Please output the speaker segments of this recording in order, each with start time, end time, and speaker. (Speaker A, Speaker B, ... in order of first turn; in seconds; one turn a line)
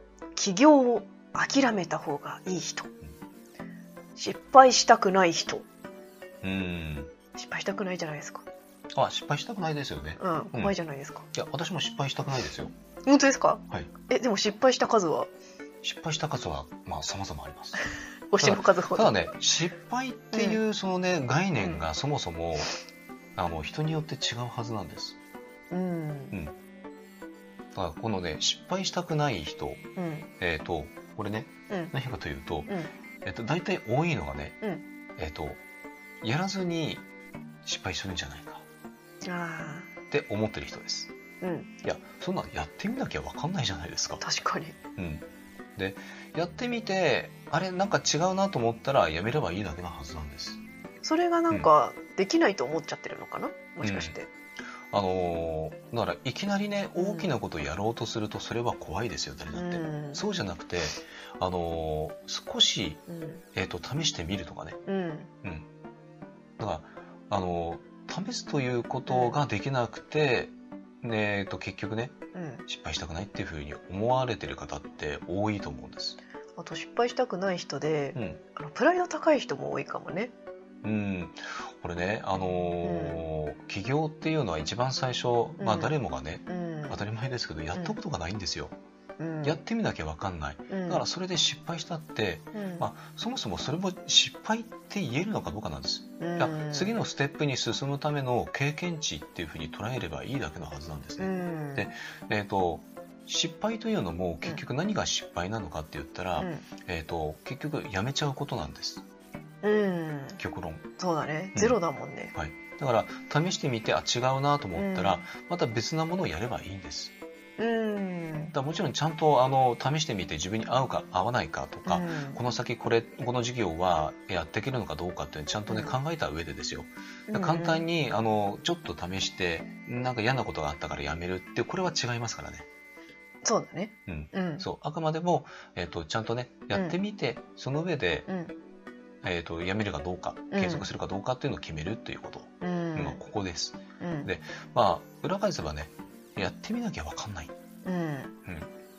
Speaker A: 0.3-2.9
Speaker A: 4.2-5.7
Speaker B: 6.4-7.1
Speaker A: 7.3-8.5
Speaker B: 8.9-10.7
Speaker A: 10.2-11.3
Speaker B: 11.3-12.7
Speaker A: 13.1-15.3
Speaker B: 15.8-17.8
Speaker A: 18.3-19.2
Speaker B: 18.4-22.7
Speaker A: 20.3-20.6
Speaker A: 21.6-21.9
Speaker B: 23.4-25.2
Speaker A: 25.7-26.3
Speaker B: 27.8-29.8
Speaker A: 30.0-30.3
Speaker B: 30.4-34.6
Speaker A: 32.7-32.9
Speaker B: 35.2-35.6
Speaker B: 36.2-37.1
Speaker B: 37.6-38.6
Speaker A: 39.2-39.9
Speaker B: 40.1-41.1
Speaker A: 41.4-41.7
Speaker B: 41.8-44.2
Speaker A: 44.2-44.8
Speaker B: 45.0-45.2
Speaker B: 45.8-50.6
Speaker A: 51.0-54.3
Speaker B: 53.8-54.2
Speaker B: 54.9-63.0
Speaker A: 57.0-57.4
Speaker A: 59.5-60.3
Speaker A: 63.1-63.4
Speaker B: 63.5-64.8
Speaker A: 64.9-65.3
Speaker B: 66.6-72.2
Speaker A: 69.1-69.4
Speaker A: 72.3-72.7
Speaker B: 72.7-76.2
Speaker A: 76.6-80.3
Speaker B: 78.2-78.4
Speaker B: 80.8-88.8
Speaker A: 82.8-83.2
Speaker A: 85.6-87.0
Speaker A: 89.2-89.6
Speaker B: 89.4-109.0
Speaker A: 90.7-91.0
Speaker A: 92.5-92.9
Speaker A: 96.2-97.0
Speaker A: 101.2-101.9
Speaker A: 106.4-106.7
Speaker A: 109.6-110.4
Speaker B: 110.4-110.8
Speaker A: 111.0-112.3
Speaker B: 112.3-117.1
Speaker A: 114.8-115.3
Speaker A: 117.6-118.5
Speaker B: 118.5-132.7
Speaker A: 121.8-122.4
Speaker A: 125.7-126.0
Speaker A: 127.3-127.8
Speaker A: 133.4-134.7
Speaker B: 134.1-138.3
Speaker A: 138.3-138.6
Speaker B: 139.2-147.5
Speaker A: 140.5-140.9
Speaker A: 142.6-143.2
Speaker A: 144.0-144.3
Speaker A: 147.8-148.4